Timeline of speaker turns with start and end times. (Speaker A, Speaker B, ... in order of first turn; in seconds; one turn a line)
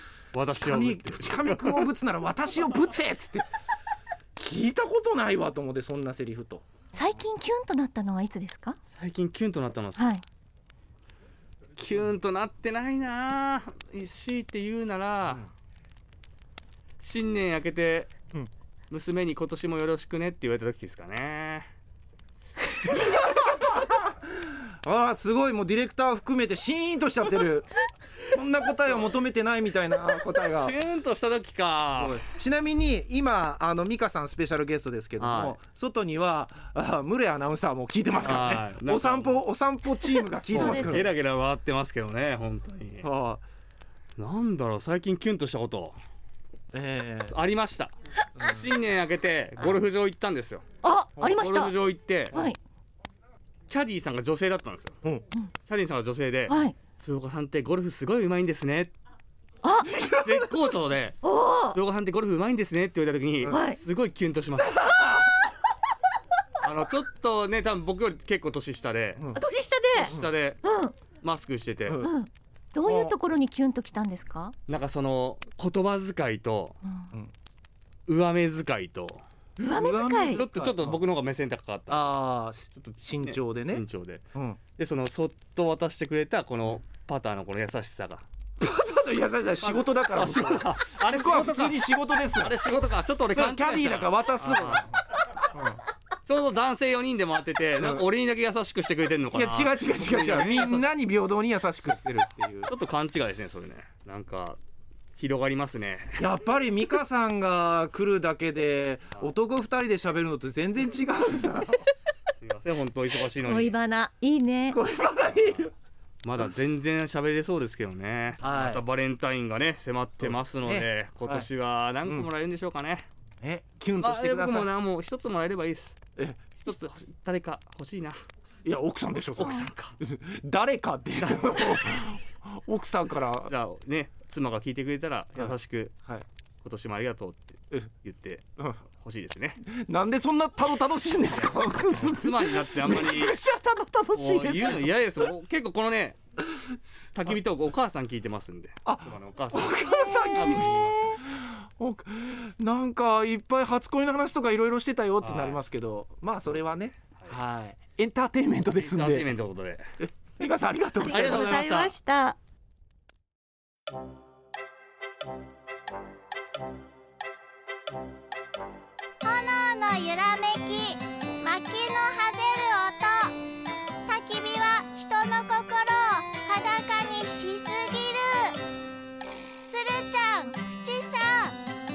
Speaker A: 0.3-1.9
Speaker B: 0.5-3.5
Speaker B: 4.4-6.7
Speaker C: 6.9-8.8
Speaker A: 8.9-10.0
Speaker C: 10.0-10.2
Speaker A: 11.8-15.4
Speaker A: 17.0-18.1
Speaker A: 18.9-21.7
Speaker B: 23.0-30.8
Speaker A: 30.6-32.2
Speaker B: 31.9-41.1
Speaker A: 35.2-35.6
Speaker A: 38.2-39.4
Speaker A: 40.4-43.1
Speaker C: 40.5-41.1
Speaker B: 43.0-43.4
Speaker A: 44.2-46.0
Speaker B: 46.7-47.4
Speaker A: 47.3-50.6
Speaker B: 48.4-48.7
Speaker C: 50.8-51.7
Speaker A: 51.2-52.4
Speaker C: 52.3-52.6
Speaker A: 53.7-55.0
Speaker A: 55.7-58.9
Speaker C: 56.5-56.8
Speaker C: 59.6-60.1
Speaker A: 59.9-64.9
Speaker C: 61.2-61.8
Speaker C: 63.5-63.8
Speaker A: 66.6-69.2
Speaker B: 69.2-69.4
Speaker C: 69.3-71.0
Speaker A: 70.0-70.6
Speaker B: 70.0-70.3
Speaker A: 71.2-72.0
Speaker B: 71.9-72.1
Speaker C: 72.0-74.5
Speaker B: 72.8-73.2
Speaker A: 74.7-76.8
Speaker C: 76.8-77.1
Speaker A: 78.1-79.2
Speaker B: 79.6-81.0
Speaker C: 79.6-80.5
Speaker A: 80.2-82.1
Speaker B: 81.9-84.6
Speaker A: 82.8-84.2
Speaker A: 84.8-88.2
Speaker B: 88.6-92.6
Speaker A: 89.6-94.8
Speaker B: 93.3-95.0
Speaker B: 95.5-95.8
Speaker A: 96.3-100.9
Speaker B: 97.8-98.1
Speaker B: 99.3-102.7
Speaker A: 102.7-104.6
Speaker A: 105.2-106.2
Speaker B: 106.2-111.9
Speaker A: 112.4-113.7
Speaker C: 113.4-114.8
Speaker B: 114.7-115.7
Speaker A: 115.3-115.7
Speaker A: 116.2-123.1
Speaker B: 118.4-118.8
Speaker B: 120.2-121.5
Speaker B: 122.0-122.3
Speaker B: 123.4-124.7
Speaker A: 124.0-126.0
Speaker B: 126.2-126.8
Speaker A: 126.6-128.2
Speaker B: 128.7-133.5
Speaker A: 129.3-130.0
Speaker C: 129.4-129.7
Speaker A: 131.2-131.8
Speaker A: 133.4-135.9
Speaker B: 135.4-136.3
Speaker A: 136.6-138.4
Speaker A: 138.9-139.6
Speaker B: 139.7-145.0
Speaker A: 141.3-143.4
Speaker A: 144.1-146.2
Speaker A: 147.1-151.2
Speaker B: 148.8-159.3
Speaker C: 150.1-150.7
Speaker A: 155.2-155.6
Speaker A: 156.5-157.4
Speaker A: 158.8-159.9
Speaker B: 160.0-161.6
Speaker A: 161.1-162.0
Speaker C: 161.1-162.4
Speaker D: 169.2-173.4
Speaker D: 174.1-178.6
Speaker D: 179.7-181.6